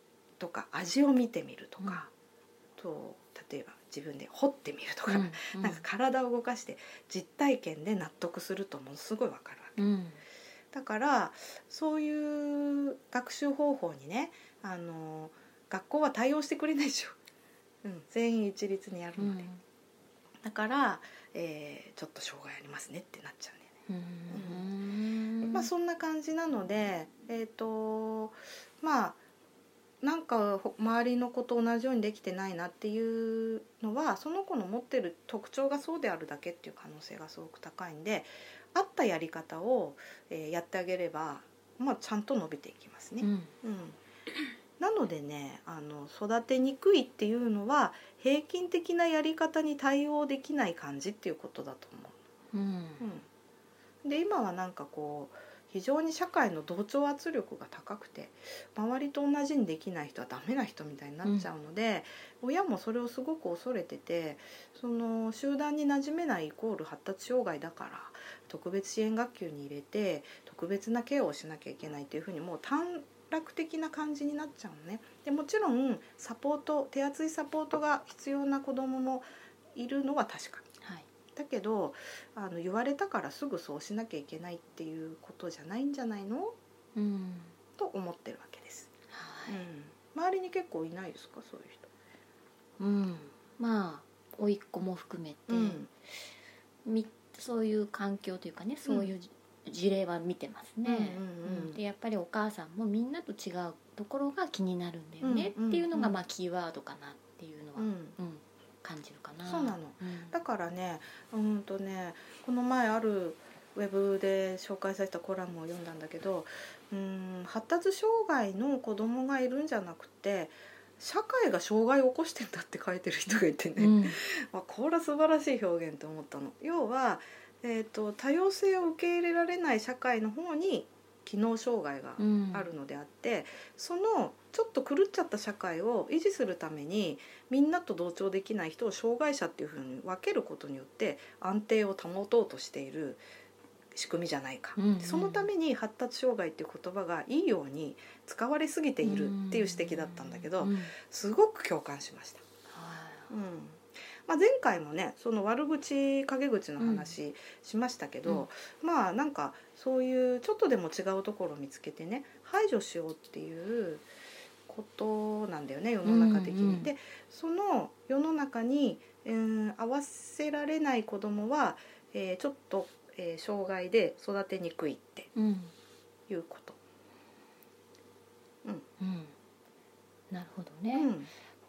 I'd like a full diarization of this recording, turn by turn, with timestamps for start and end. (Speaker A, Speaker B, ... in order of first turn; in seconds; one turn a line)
Speaker A: 0.4-2.1
Speaker A: 2.8-9.8
Speaker B: 5.1-5.8
Speaker B: 9.8-10.2
Speaker A: 10.7-17.2
Speaker A: 17.8-19.5
Speaker B: 19.2-19.6
Speaker A: 20.4-23.7
Speaker B: 23.9-25.7
Speaker A: 24.3-24.6
Speaker A: 25.5-29.2
Speaker A: 30.0-44.0
Speaker B: 43.2-43.5
Speaker A: 44.8-52.2
Speaker B: 52.5-53.1
Speaker A: 53.0-53.2
Speaker A: 54.0-80.7
Speaker B: 61.2-61.5
Speaker B: 80.8-81.1
Speaker A: 81.3-86.5
Speaker B: 87.0-87.5
Speaker A: 87.8-88.9
Speaker B: 89.1-89.6
Speaker A: 89.5-91.9
Speaker B: 92.8-95.8
Speaker A: 95.5-95.9
Speaker B: 96.8-110.4
Speaker A: 98.9-99.1
Speaker A: 100.8-101.8
Speaker A: 105.2-106.2
Speaker A: 107.8-108.2
Speaker A: 109.5-143.2
Speaker B: 123.8-124.2
Speaker B: 132.2-132.7
Speaker A: 143.9-152.4
Speaker B: 144.8-145.5
Speaker B: 149.0-150.9
Speaker B: 152.7-153.3
Speaker A: 153.3-164.1
Speaker B: 156.8-157.1
Speaker A: 164.7-175.3
Speaker B: 166.0-166.9
Speaker B: 175.3-175.7
Speaker A: 176.3-176.8
Speaker B: 179.0-179.3
Speaker B: 180.3-181.2
Speaker A: 180.9-181.3